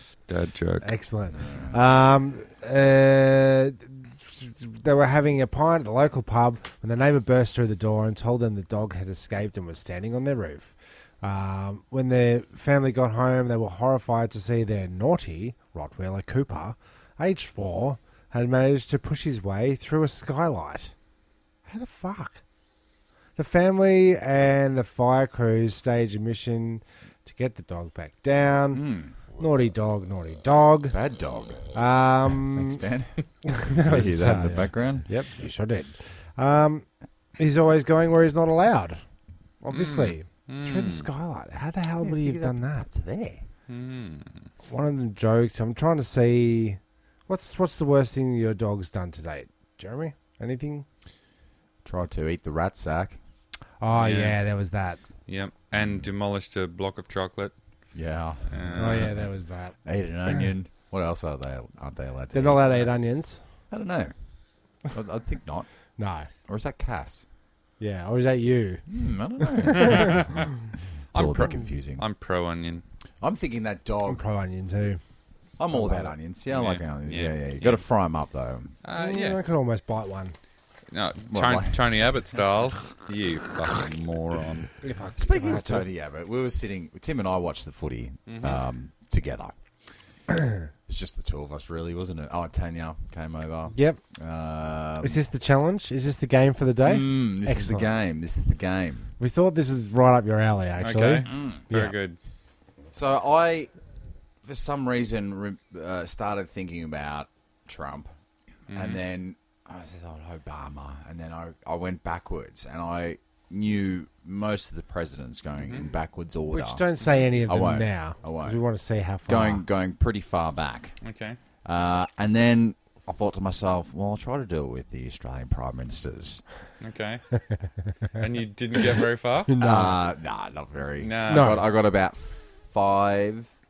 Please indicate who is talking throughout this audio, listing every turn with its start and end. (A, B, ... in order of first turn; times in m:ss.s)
0:00.3-0:00.9 A
0:00.8-0:20.9 B
0:01.4-0:01.8 C
0:21.7-0:22.4 B
0:23.4-0:31.0 B
0:28.7-0:29.4 C
0:30.9-0:31.8 C
0:31.7-0:32.8 B
0:32.3-0:33.2 C
0:33.4-0:36.9 B
0:33.8-0:35.1 C
0:37.4-0:39.0 B
0:39.6-0:42.9 B
0:39.7-0:41.1 A
0:42.0-0:43.5 C
0:43.7-0:44.4 A
0:44.7-0:50.9 B
0:51.8-0:53.2 C
0:53.8-0:55.0 B
0:53.9-0:54.4 A
0:55.3-0:57.5 A
0:55.8-0:56.0 C
0:57.9-0:59.2 C
0:58.5-0:59.1 A
0:58.8-0:59.8 B
0:59.8-1:03.0 C
1:02.3-1:03.4 B
1:03.7-1:04.1 C
1:04.9-1:05.7 C
1:06.0-1:06.3 B
1:06.5-1:07.2 C
1:07.8-1:08.8 B
1:08.9-1:10.3 C
1:09.4-1:10.0 B
1:09.8-1:10.5 A
1:11.1-1:12.0 C
1:11.1-1:12.8 A
1:13.2-1:14.2 C
1:14.1-1:15.0 B
1:15.6-1:18.8 C
1:15.7-1:16.1 B
1:16.5-1:17.8 A
1:18.8-1:19.4 A
1:19.0-1:20.4 B
1:20.9-1:24.7 A
1:21.3-1:21.8 C
1:24.8-1:25.9 B
1:25.2-1:29.5 C
1:28.3-1:28.6 A
1:30.9-1:35.2 C
1:33.7-1:34.0 B
1:35.0-1:37.9 B
1:36.8-1:39.1 C
1:39.2-1:42.0 B
1:40.8-1:42.2 A
1:41.3-1:41.6 C
1:42.9-1:43.7 C
1:44.4-1:48.1 C
1:48.7-1:49.0 A
1:48.7-1:56.8 C
1:55.6-1:55.9 A
1:56.5-1:59.6 B
1:57.4-1:58.6 C
1:59.2-2:01.0 C
2:01.0-2:01.4 A
2:01.6-2:06.4 C
2:06.8-2:07.3 A
2:08.2-2:09.5 A
2:09.5-2:10.0 B
2:09.6-2:13.5 C
2:11.0-2:11.6 A
2:11.3-2:11.6 B